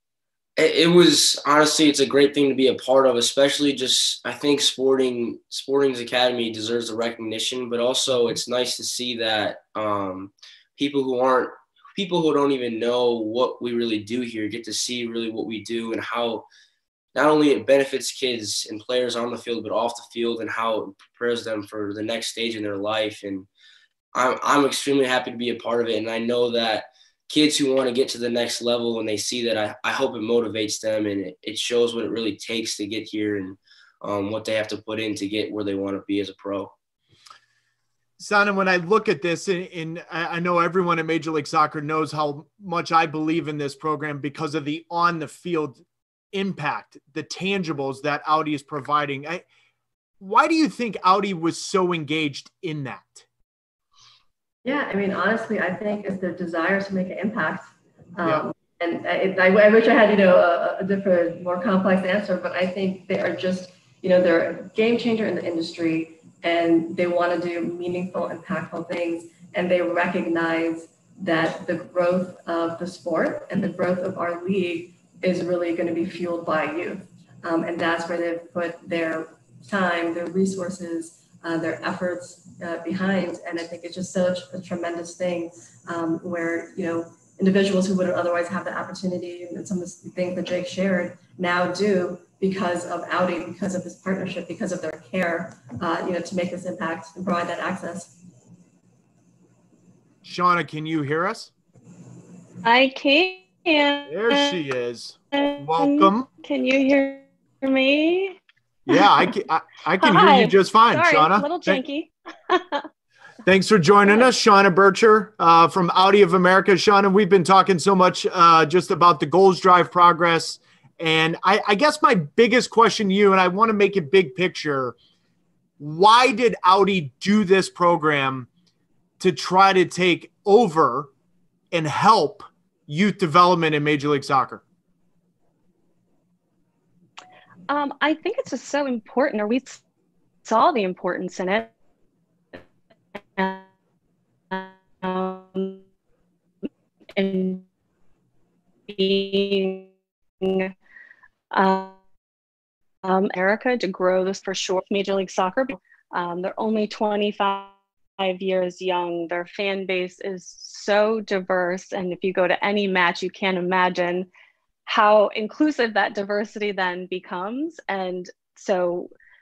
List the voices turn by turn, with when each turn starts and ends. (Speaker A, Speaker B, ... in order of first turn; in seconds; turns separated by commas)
Speaker A: 0.6-16.5, Speaker A: 17.1-23.5, Speaker A: 24.1-36.7, Speaker B: 38.2-49.4, Speaker B: 50.2-53.2, Speaker C: 54.6-98.2, Speaker B: 100.2-101.5, Speaker D: 102.6-104.6, Speaker B: 104.1-106.3, Speaker D: 105.4-108.4, Speaker B: 108.9-111.8, Speaker D: 110.0-112.9, Speaker B: 113.5-125.0, Speaker B: 125.8-128.5, Speaker B: 129.2-131.1, Speaker B: 131.7-134.6, Speaker D: 137.7-139.8, Speaker D: 140.4-141.7, Speaker D: 143.4-143.6, Speaker D: 144.5-145.8, Speaker D: 147.2-147.6, Speaker D: 148.9-149.9, Speaker D: 150.4-150.7, Speaker D: 151.5-151.9, Speaker D: 153.0-164.3, Speaker D: 164.9-169.1